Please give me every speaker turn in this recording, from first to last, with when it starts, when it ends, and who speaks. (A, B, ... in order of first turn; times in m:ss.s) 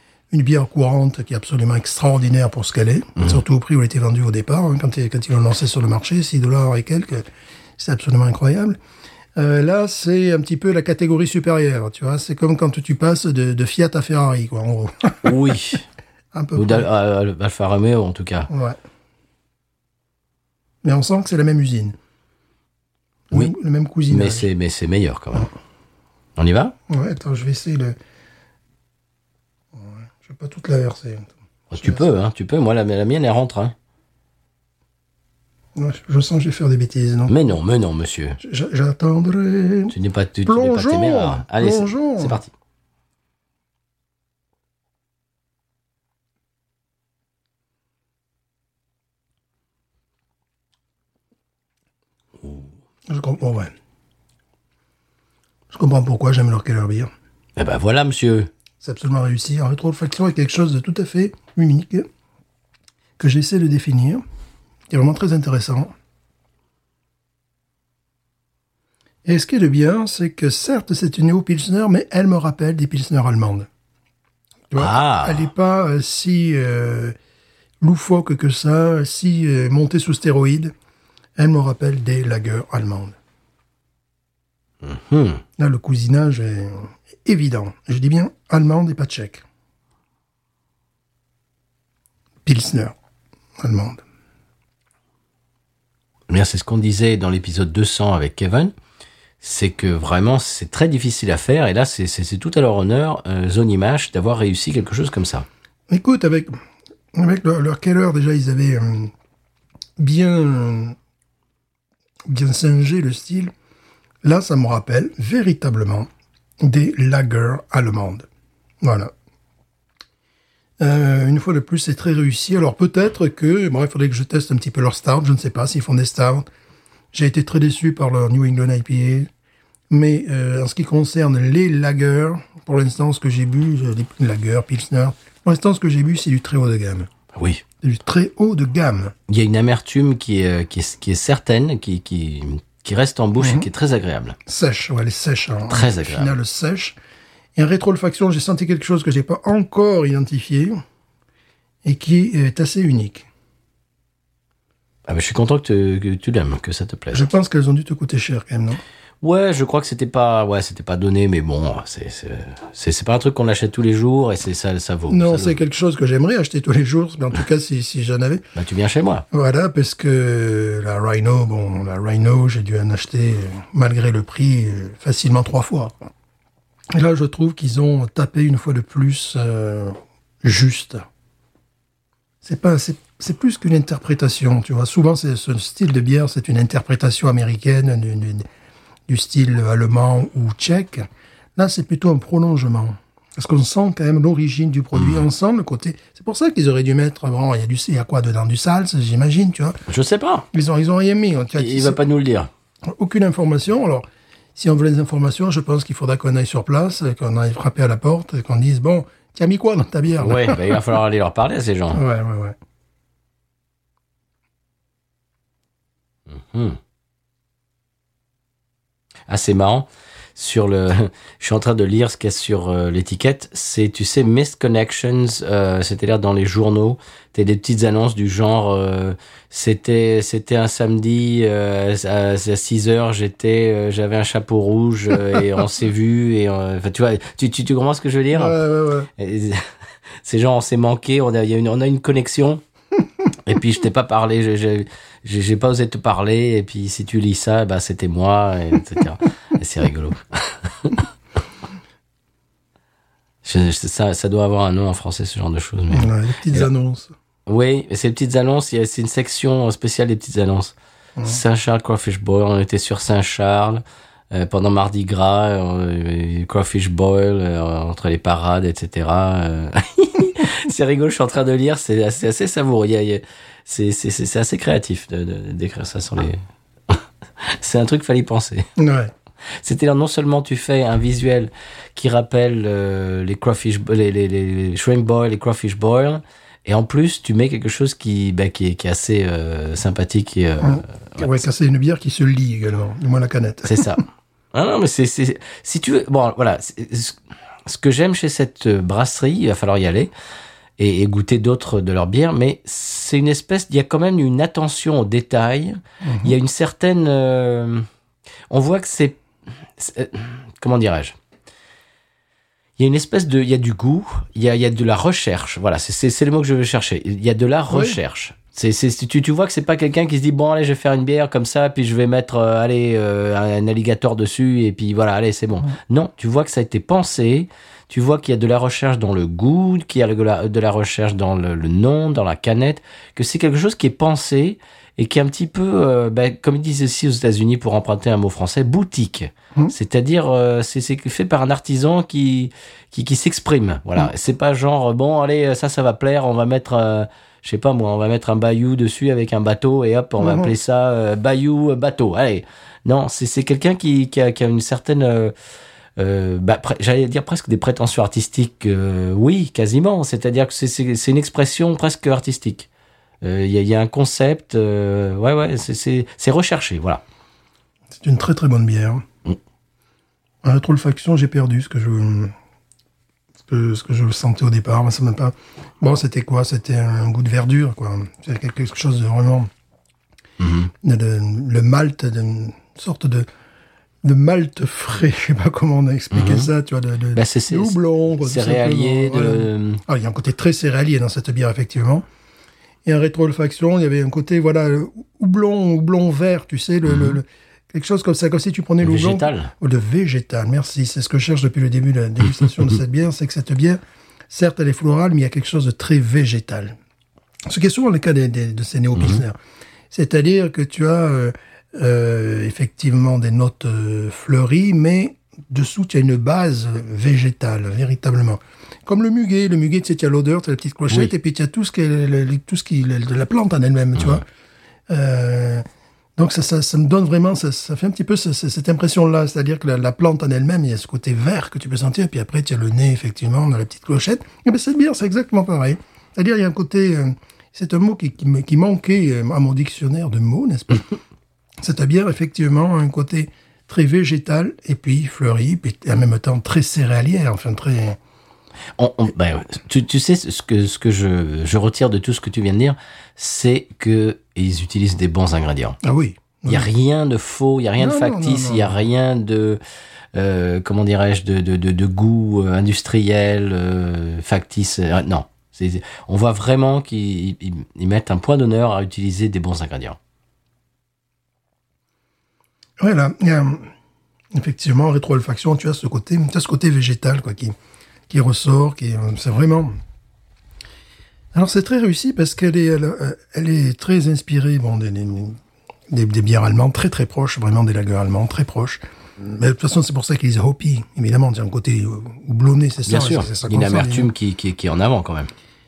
0:00.3-0:07.3 A
0:07.8-0:08.8 A
0:09.3-0:15.6 A
0:15.2-0:15.8 B
0:16.3-0:16.9 A
0:16.6-0:18.5 B
0:18.5-0:18.8 A
0:20.8-0:21.9 A
0:23.3-0:24.5 A
0:24.1-0:25.5 B
0:26.4-0:26.7 B
0:26.9-0:28.0 A
0:29.7-0:32.1 A
0:31.7-0:33.7 B
0:35.8-0:37.5 A
0:37.3-0:38.4 B
0:38.4-0:39.9 A
0:39.9-0:42.5 B
0:40.4-0:42.4 A
0:53.1-0:53.7 A
0:55.7-0:57.1 A
0:57.6-0:58.5 B
0:58.8-1:02.1 A
1:03.2-1:04.2 A
1:04.9-1:05.9 A
1:09.2-1:13.7 A
1:14.7-1:17.1 A
1:14.7-1:15.5 B
1:17.8-1:20.7 A
1:21.4-1:23.2 A
1:24.8-1:25.4 B
1:25.6-1:29.4 A
1:32.4-1:32.9 A
1:33.6-1:34.0 A
1:36.3-1:38.7 B
1:39.4-1:45.5 B
1:45.9-1:46.6 A
1:47.1-1:49.1 A
1:50.0-1:51.0 A
1:52.3-1:53.5 A
1:54.2-1:56.1 A
1:56.6-1:58.3 A
1:58.8-1:59.1 A
2:00.8-2:06.5 A
2:07.1-2:09.3 A
2:09.9-2:17.1 A
2:17.3-2:17.6 B
2:17.8-2:19.1 A
2:19.3-2:24.4 B
2:23.4-2:23.6 A
2:24.4-2:27.0 A
2:25.7-2:26.3 B
2:27.6-2:30.8 A
2:31.8-2:33.3 A
2:35.0-2:37.3 B
2:37.1-2:38.8 A
2:39.2-2:45.6 B
2:45.1-2:48.4 A
2:48.5-2:49.2 B
2:49.3-2:56.0 A
2:56.9-3:01.0 A
3:02.4-3:08.4 A
3:09.1-3:19.8 A
3:14.9-3:15.2 B
3:19.9-3:20.5 B
3:20.5-3:22.0 A
3:21.6-3:22.5 B
3:22.9-3:30.8 A
3:30.2-3:32.0 B
3:31.9-3:32.6 A
3:36.3-3:36.8 B
3:39.3-3:58.6 B
3:58.3-3:59.1 A
3:59.2-3:59.6 B
4:00.2-4:02.6 B
4:03.4-4:11.0 B
4:13.4-4:16.7 B
4:15.9-4:17.1 A
4:17.4-4:38.7 B
4:38.8-4:39.1 A
4:39.6-4:51.4 B
4:50.6-4:54.0 A
4:53.6-5:00.1 B
5:00.8-5:07.9 B
5:06.0-5:06.3 A
5:08.5-5:09.2 B
5:09.8-5:11.1 B
5:12.8-5:55.3 B
5:17.7-5:18.0 A
5:50.2-5:50.5 A
5:56.0-6:02.7 B
6:03.2-6:07.0 B
6:07.9-6:09.0 A
6:10.4-6:12.3 A
6:13.4-6:19.5 A
6:20.4-6:20.7 B
6:20.8-6:23.3 A
6:24.0-6:32.0 A
6:26.1-6:26.5 B
6:27.1-6:29.8 B
6:32.8-6:46.8 A
6:38.8-6:39.5 B
6:47.5-6:49.4 A
6:48.9-6:49.2 B
6:49.9-7:04.2 A
7:04.9-7:05.6 A
7:06.2-7:21.0 A
7:21.6-7:28.0 A
7:28.8-7:35.8 B
7:35.8-7:36.7 A
7:36.5-7:39.6 B
7:37.8-7:38.8 A
7:40.1-7:50.0 B
7:52.8-7:53.7 A
7:54.3-7:57.5 A
7:58.1-7:59.7 A
8:01.3-8:05.4 A
8:05.9-8:14.1 A
8:12.8-8:15.3 B